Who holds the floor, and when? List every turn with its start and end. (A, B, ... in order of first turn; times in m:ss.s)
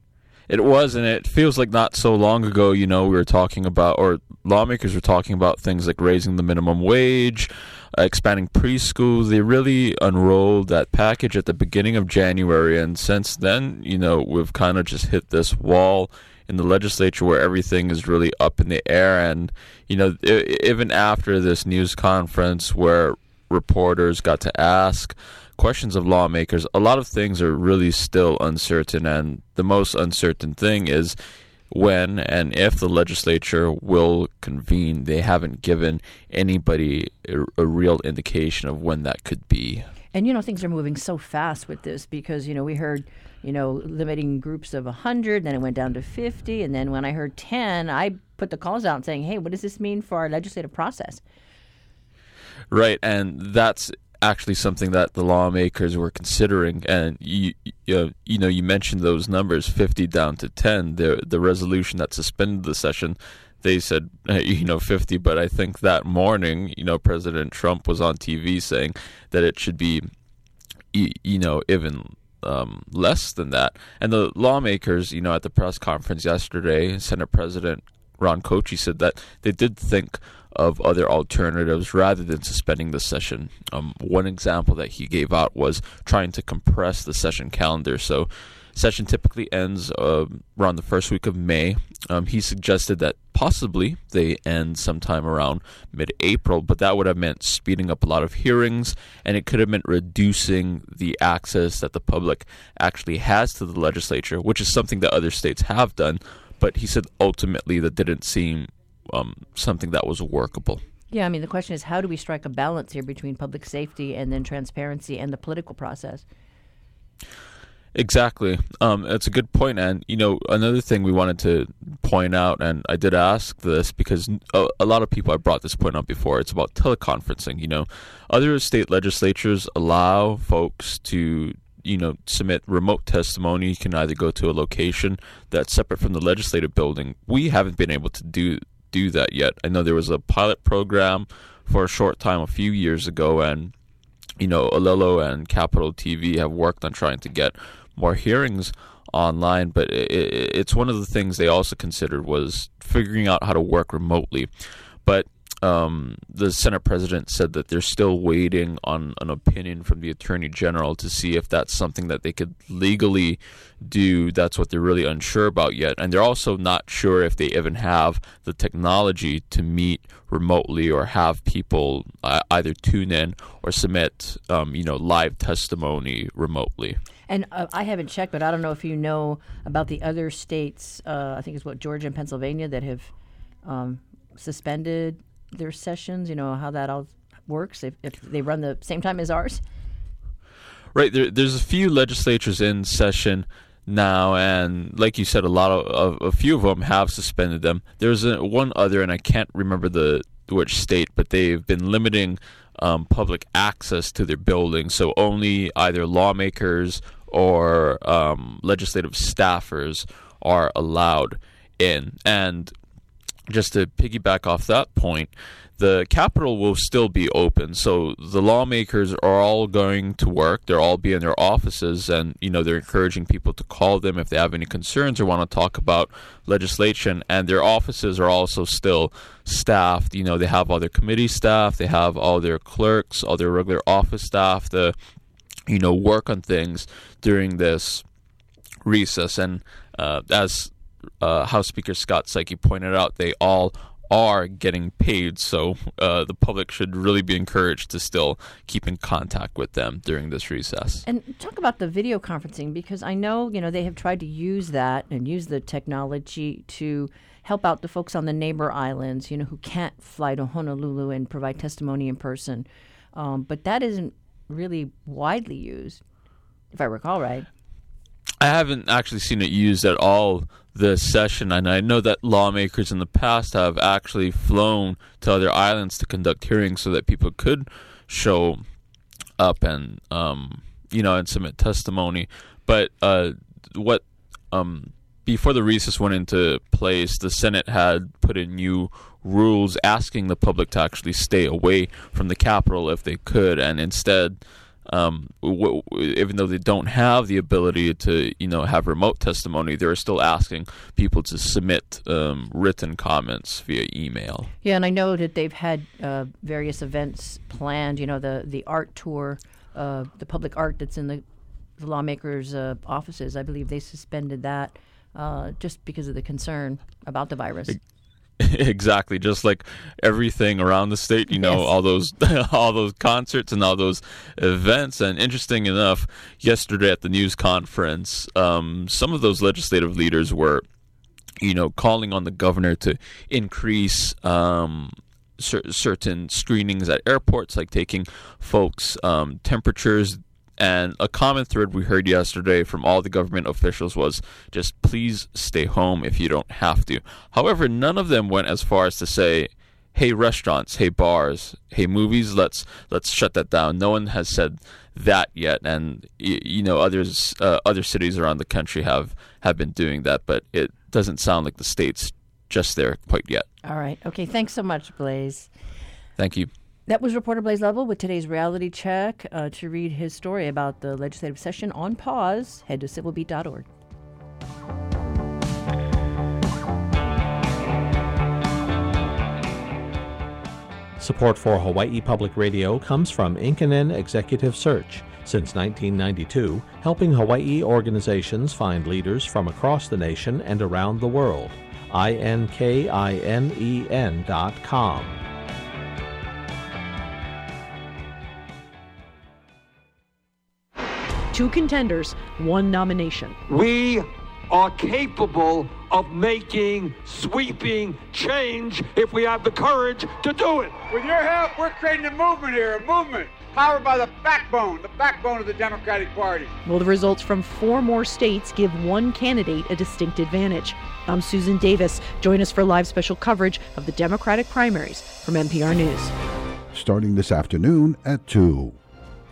0:00.5-0:31.1 A
0:31.7-0:39.8 A
0:40.1-0:51.2 B
0:52.7-1:10.1 A
1:10.9-1:50.8 A
1:51.1-1:56.2 B
1:57.9-2:23.7 A
2:24.4-2:34.5 A
2:35.0-2:57.0 A
2:57.3-3:03.1 B
3:03.6-3:09.6 B
3:10.9-3:32.7 A
3:33.5-3:54.9 A
3:55.7-3:58.0 A
3:58.8-4:11.0 A
4:11.0-4:26.0 B
4:26.7-4:27.5 B
4:28.4-4:38.6 A
4:39.4-5:04.5 A
5:04.6-5:11.2 B
5:11.8-5:17.8 B
5:18.4-5:30.6 A
5:21.3-5:21.7 B
5:31.4-6:03.4 A
6:03.6-6:05.5 B
6:06.2-6:06.5 A
6:06.9-6:13.6 B
6:21.0-6:35.2 C
6:41.3-6:43.4 D
6:43.5-6:50.8 E
6:50.9-6:56.5 F
6:56.6-7:06.1 D
7:06.7-7:08.8 G